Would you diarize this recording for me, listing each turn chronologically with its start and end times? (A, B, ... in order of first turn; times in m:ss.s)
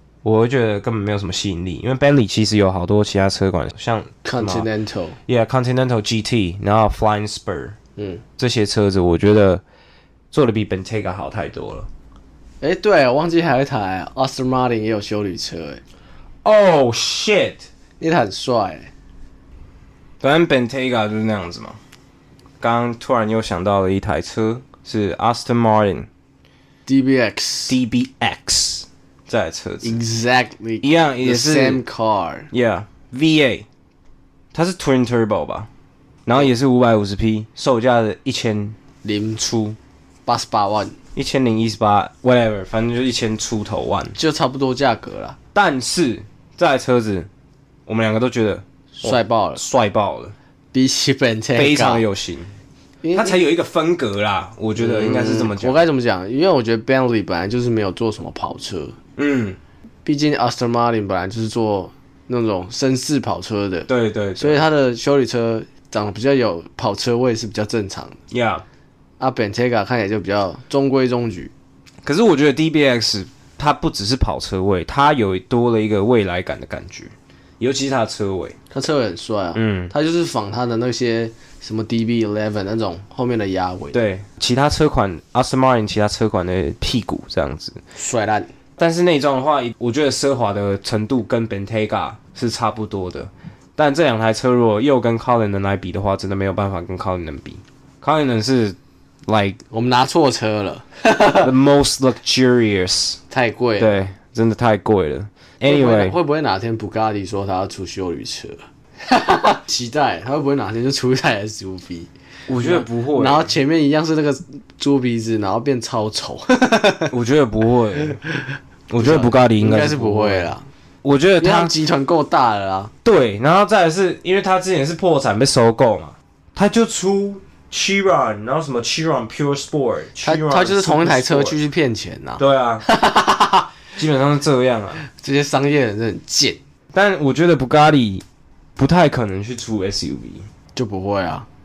0:00.2-0:04.7 A
0:04.2-0:05.2 B
0:05.3-0:07.8 A
0:08.0-0:08.2 B
0:08.4-0:09.6 A
0:10.3-0:11.9 A
0:12.6-0:15.8 B
0:16.4-0:17.7 A
0:18.0-0:18.9 B
0:20.2-0:21.8 A
0:22.6-0:26.1 A
0:26.9-0:27.8 B
0:27.7-0:30.0 A
0:29.8-0:32.5 B
0:30.8-0:31.8 A
0:32.5-0:33.7 A
0:34.5-0:35.7 A
0:36.3-0:38.8 A
0:39.0-0:39.5 B
0:39.4-0:39.8 A
0:40.3-0:41.0 B
0:41.2-0:44.2 A
0:44.2-0:45.4 B
0:45.5-0:47.3 A
0:47.9-0:50.4 A
0:49.0-0:49.6 B
0:50.7-0:52.1 B
0:51.6-0:52.5 A
0:53.0-0:53.4 B
0:53.2-0:55.8 A
0:54.8-0:59.0 B
0:59.2-0:59.6 A
1:00.0-1:08.2 B
1:03.9-1:04.6 A
1:08.3-1:08.6 A
1:09.2-1:11.5 B
1:12.0-1:18.6 A
1:18.7-1:24.0 B
1:19.6-1:19.9 A
1:23.9-1:27.8 A
1:28.0-1:28.5 B
1:28.8-1:39.6 A
1:39.7-1:41.5 B
1:41.4-1:43.2 A
1:43.3-1:44.0 B
1:43.8-1:46.2 A
1:45.6-1:57.1 B
1:52.5-1:53.6 A
1:57.1-1:58.2 A
1:58.9-2:01.7 A
1:59.0-2:00.7 B
2:01.4-2:02.9 B
2:03.0-2:11.6 A
2:10.2-2:13.7 B
2:12.4-2:12.8 A
2:14.0-2:15.0 A
2:15.1-2:16.6 B
2:16.9-2:18.2 A
2:18.8-2:20.5 A
2:20.8-2:21.5 B